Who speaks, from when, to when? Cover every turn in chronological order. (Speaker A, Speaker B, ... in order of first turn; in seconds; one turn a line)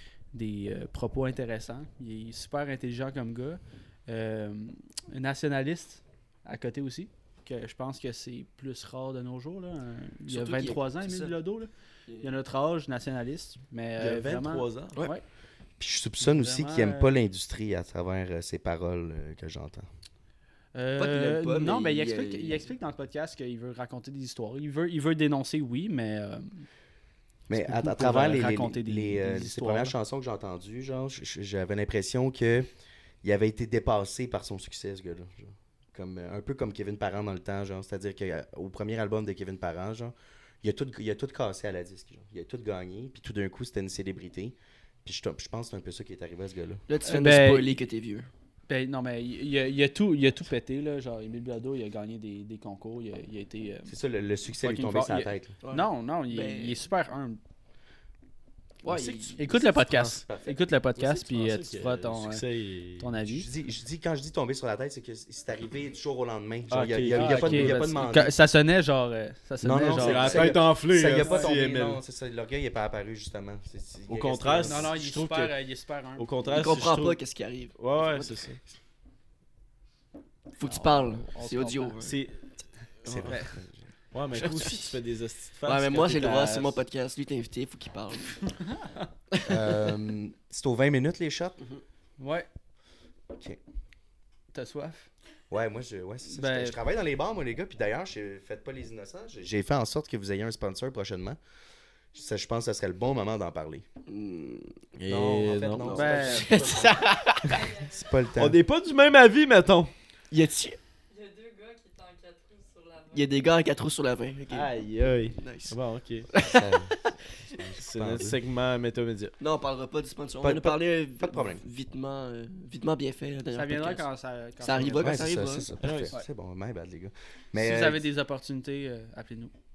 Speaker A: 0.3-11.7
Speaker B: 10.3-11.3
Speaker A: 12.2-15.2
Speaker C: 14.0-15.1
Speaker D: 15.8-19.9
Speaker A: 16.2-17.1
Speaker A: 20.7-26.6
Speaker B: 21.0-22.6
Speaker D: 27.5-32.7
Speaker A: 27.6-29.9
Speaker D: 33.2-46.8
Speaker B: 46.9-48.3
Speaker A: 47.0-47.7
Speaker A: 48.7-53.9
Speaker D: 53.9-55.5
Speaker A: 54.6-57.4
Speaker B: 55.6-56.8
Speaker B: 58.8-59.4
Speaker C: 58.9-60.2
Speaker A: 59.4-62.4
Speaker D: 60.2-60.6
Speaker C: 61.0-63.1
Speaker A: 63.0-63.5
Speaker D: 63.2-68.3
Speaker C: 66.7-67.8
Speaker A: 67.1-70.6
Speaker D: 69.6-74.9
Speaker C: 69.9-72.0
Speaker A: 71.2-71.5
Speaker C: 74.1-75.5
Speaker A: 74.6-76.3
Speaker C: 76.2-77.2
Speaker B: 76.5-78.3
Speaker C: 77.8-78.6
Speaker B: 80.6-82.2
Speaker A: 80.6-82.0
Speaker C: 82.0-82.4
Speaker C: 83.0-83.4
Speaker D: 83.0-83.8
Speaker A: 83.2-83.5
Speaker C: 84.1-86.8
Speaker B: 84.3-85.0
Speaker B: 85.6-88.5
Speaker A: 88.7-89.0
Speaker B: 89.3-89.9
Speaker D: 89.4-91.6
Speaker A: 92.2-92.5
Speaker D: 93.3-93.6
Speaker A: 94.5-95.1
Speaker D: 95.5-101.4
Speaker A: 96.3-96.8
Speaker D: 102.1-103.8
Speaker B: 104.1-104.8
Speaker C: 105.0-106.3
Speaker D: 105.0-108.6
Speaker B: 105.8-107.6
Speaker A: 105.9-106.5
Speaker E: 107.5-108.1
Speaker C: 108.3-109.9
Speaker B: 110.3-110.8
Speaker E: 111.1-113.3
Speaker B: 113.1-114.7
Speaker C: 114.5-116.3
Speaker B: 115.3-115.8
Speaker B: 116.3-117.2
Speaker D: 116.4-117.0
Speaker D: 117.5-118.4
Speaker C: 117.8-119.3
Speaker B: 119.4-124.0
Speaker D: 120.4-121.6
Speaker A: 123.5-125.2
Speaker B: 124.6-125.7
Speaker D: 124.9-128.0
Speaker C: 125.8-126.1
Speaker A: 127.5-129.5